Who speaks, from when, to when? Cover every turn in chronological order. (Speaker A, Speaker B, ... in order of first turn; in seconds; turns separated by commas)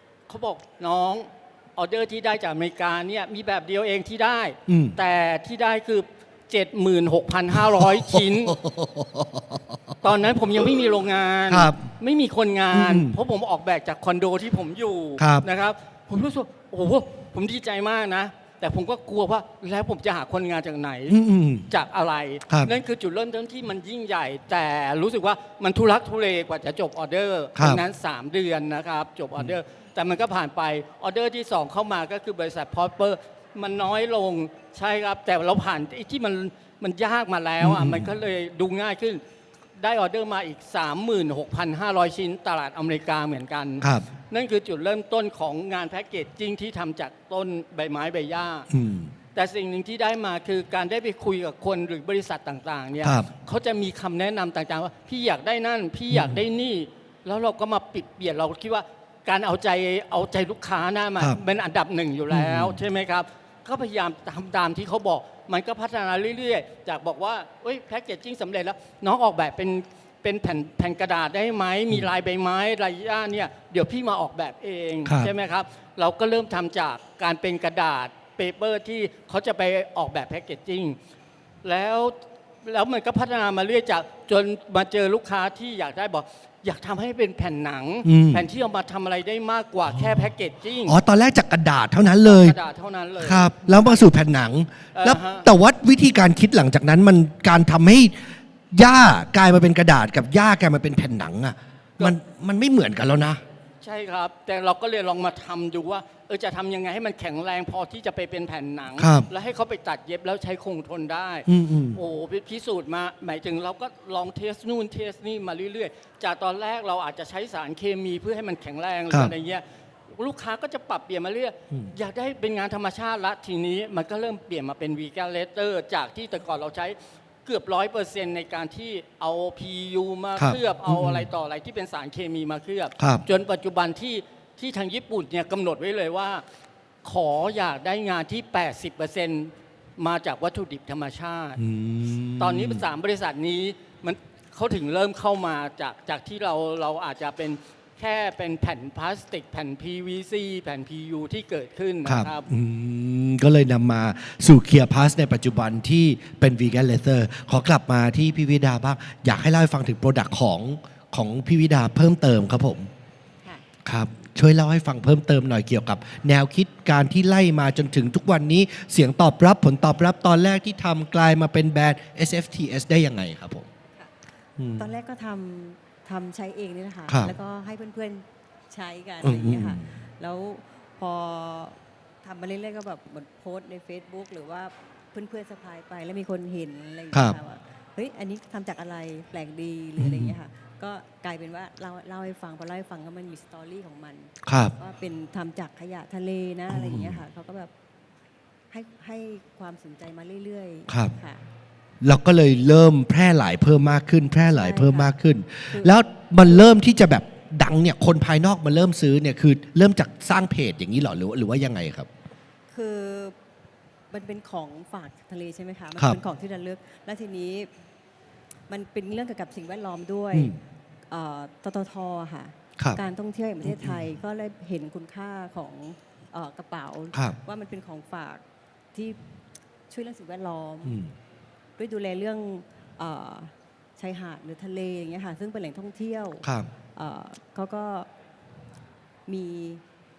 Speaker A: 0.3-8.6, Speaker B: 4.7-5.0, Speaker B: 7.6-9.9, Speaker A: 10.0-39.2, Speaker B: 11.5-11.9, Speaker B: 12.7-13.2, Speaker B: 15.2-15.5, Speaker B: 21.1-21.7, Speaker B: 27.6-27.8, Speaker B: 37.6-38.1, Speaker A: 39.8-48.7, Speaker B: 43.8-44.1, Speaker B: 48.7-49.1, Speaker A: 49.4-81.0, Speaker B: 53.0-53.3, Speaker B: 56.1-56.4, Speaker B: 62.3-62.8, Speaker B: 75.1-75.3, Speaker A: 81.6-91.0, Speaker B: 88.0-88.5, Speaker B: 90.9-92.6, Speaker A: 92.2-94.0, Speaker B: 93.2-103.4, Speaker A: 95.0-95.5, Speaker A: 103.8-136.4, Speaker B: 109.0-109.3, Speaker B: 111.5-112.0, Speaker B: 130.4-131.3, Speaker B: 133.0-133.2, Speaker A: 137.0-141.6, Speaker B: 141.6-142.8, Speaker A: 142.4-152.5, Speaker B: 152.1-162.9, Speaker B: 163.8-173.7, Speaker B: 174.6-174.8, Speaker C: 174.8-197.7, Speaker B: 179.2-179.9, Speaker B: 190.0-190.3, Speaker B: 194.4-194.7, Speaker B: 196.7-197.2, Speaker C: 198.7-201.4, Speaker B: 200.9-201.1, Speaker B: 202.0-212.1, Speaker C: 204.5-205.1, Speaker C: 205.7-206.7, Speaker C: 212.7-213.4, Speaker C: 214.1-217.7, Speaker C: 218.7-220.6, Speaker C: 221.1-228.4, Speaker B: 223.7-224.0, Speaker C: 228.9-229.2, Speaker C: 229.9-231.0, Speaker B: 230.9-231.1, Speaker C: 231.8-238.1, Speaker B: 236.4-236.7, Speaker C: 239.3-239.8